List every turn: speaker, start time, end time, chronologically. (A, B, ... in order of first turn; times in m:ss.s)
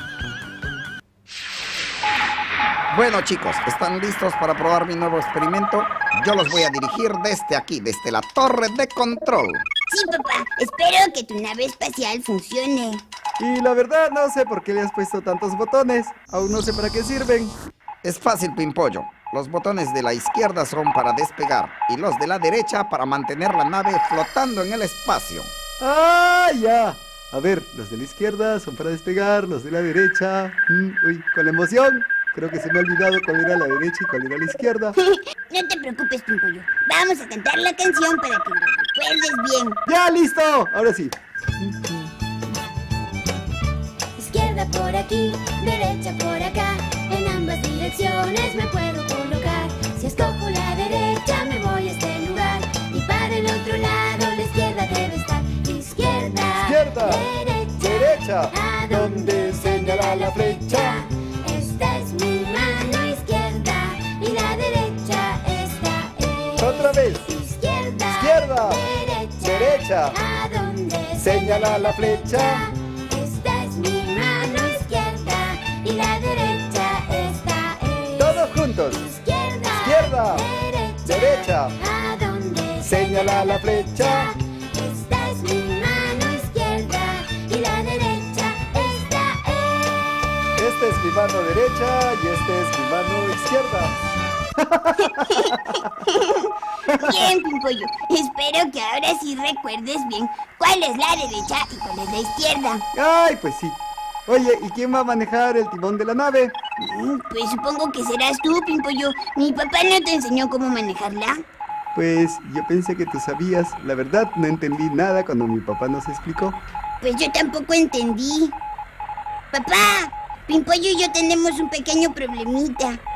0:02.9-0:09.7 A
0:09.9-0:13.0 B
0:13.4-0:17.5 C
0:18.0-0:25.5 A
0:25.8-0:35.0 C
0:35.1-0:39.8 B
0:39.9-0:42.1 C
0:44.2-1:30.5 D
0:56.6-0:57.2 C
0:57.8-1:01.0 C
1:06.6-1:07.2 C
1:08.1-1:08.8 C
1:09.4-1:10.2 C
1:11.2-1:12.7 C
1:18.2-1:19.1 C
1:19.8-1:20.5 C
1:21.0-1:21.8 C
1:22.8-1:24.3 C
1:30.6-1:34.0 C
1:34.6-1:35.8 C
1:35.0-1:42.8 B
1:42.9-1:46.6 C
1:46.8-1:51.4 B
1:52.0-1:56.6 C
1:57.0-1:58.6 B
1:59.5-2:03.0 B